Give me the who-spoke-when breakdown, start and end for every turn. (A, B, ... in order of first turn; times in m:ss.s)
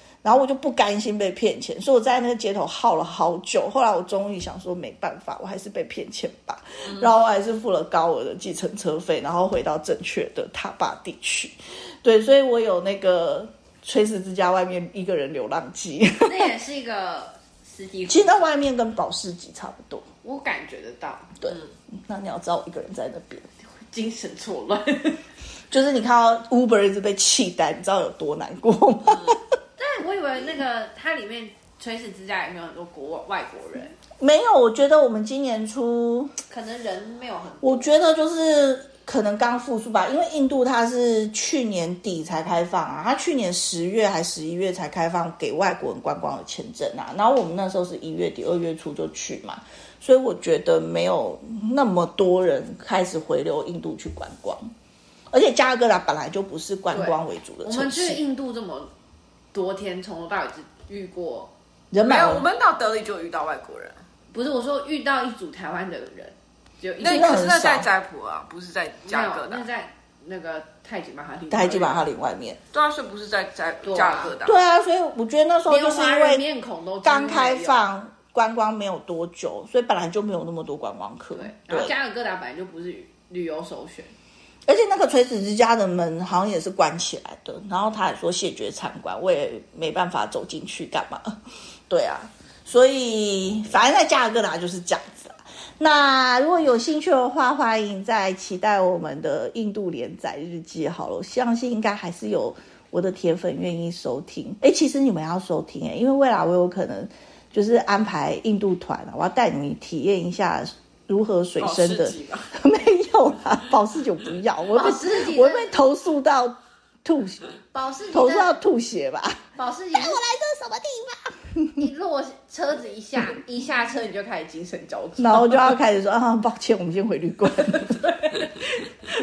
0:00.2-0:16.5 A
0:16.2-0:18.5 B
0:18.1-0:20.1 A
0:20.2-0:21.3 B
0:21.4-0:23.5 A
0:23.8-0:25.2 B
0:25.7-0:29.4 A
0:29.8-0:34.0 B
0:34.2-0:36.3 A
0:36.5-0:37.9 B
0:37.6-0:54.7 A
0:55.3-0:58.2 A
0:56.9-0:58.9 B
0:59.5-1:01.5 B
1:01.9-1:02.5 A
1:02.0-1:04.0 C
1:04.3-1:07.5 B
1:07.0-1:09.6 C
1:07.0-1:07.9 A
1:09.1-1:12.0 B
1:11.5-1:12.6 A
1:12.7-1:14.6 C
1:13.8-1:14.3 B
1:14.4-1:16.4 A
1:15.7-1:17.8 B
1:17.0-1:21.9 A
1:21.3-1:24.1 B
1:24.7-1:31.4 A
1:31.9-1:57.4 A
1:51.6-1:52.5 C
1:54.8-1:55.7 B
1:57.7-1:58.6 B
1:58.1-2:01.9 A
1:59.6-2:00.2 B
2:01.8-2:05.8 B
2:05.2-2:08.1 A
2:08.0-2:08.5 B